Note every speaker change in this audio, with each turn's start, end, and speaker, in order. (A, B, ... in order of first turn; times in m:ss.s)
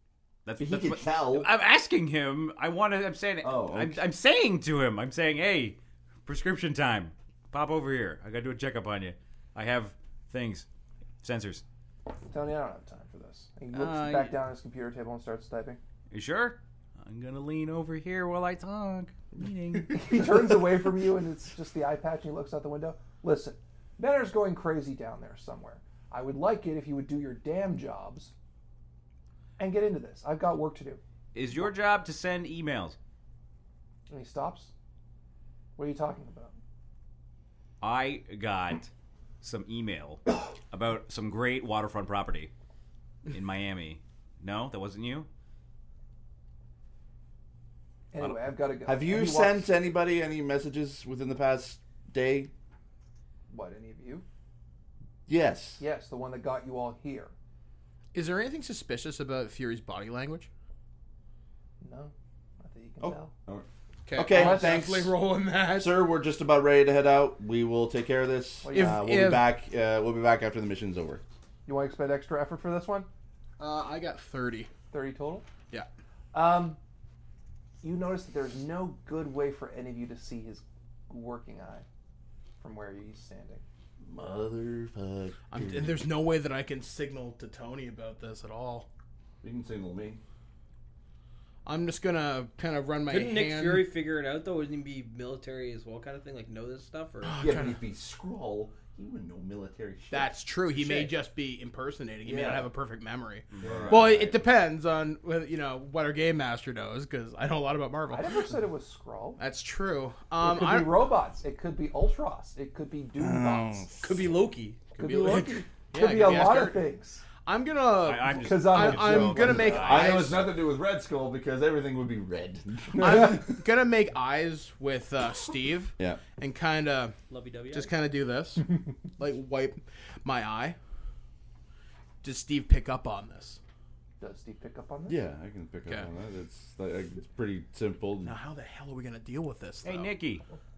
0:00.4-0:10.7 A
0:00.6-0:01.5 B
0:03.4-0:04.0 B
0:11.2-0:11.6 A
0:12.3-0:15.8 C
0:13.7-0:14.4 A
0:16.1-0:20.0 A
0:19.9-0:28.3 C
0:29.6-0:31.0 C
0:31.3-0:33.0 A
0:34.1-0:34.7 C
0:35.8-0:36.5 C
0:37.8-0:38.9 A
0:39.4-0:42.5 A
0:43.3-0:45.3 A
0:48.1-0:49.7 C
0:48.9-0:52.5 B
0:53.5-0:54.2 C
0:55.3-0:55.8 B
0:55.8-0:57.3 C
0:58.1-1:00.5 D
1:01.8-1:03.3 C
1:03.0-1:05.2 B
1:04.1-1:06.0 D
1:04.3-1:04.8 C
1:05.7-1:11.2 B
1:08.6-1:09.0 C
1:08.7-1:09.5 D
1:11.7-1:13.1 C
1:13.6-1:14.7 D
1:14.9-1:15.5 C
1:16.3-1:16.8 C
1:17.8-1:21.9 C
1:22.6-1:23.6 C
1:24.0-1:26.0 B
1:25.5-1:28.9 D
1:29.4-1:30.2 B
1:31.6-1:33.9 D
1:33.1-1:37.5 E
1:37.2-1:37.8 D
1:37.4-1:41.1 B
1:40.1-1:48.5 D
1:42.3-1:42.7 C
1:43.5-1:44.3 A
1:43.6-1:44.4 B
1:48.1-1:49.4 C
1:49.4-1:51.1 D
1:50.4-1:53.9 C
1:53.2-1:54.3 B
1:54.0-1:55.0 E
1:55.0-1:56.9 D
1:55.0-1:57.2 C
1:57.4-2:00.5 D
1:58.0-2:00.3 A
1:58.3-1:59.9 C
1:59.5-2:03.5 B
2:03.0-2:07.2 D
2:07.3-2:07.9 E
2:07.7-2:10.8 D
2:12.2-2:13.6 D
2:14.2-2:15.2 C
2:15.1-2:18.4 B
2:18.2-2:20.1 D
2:19.8-2:20.4 A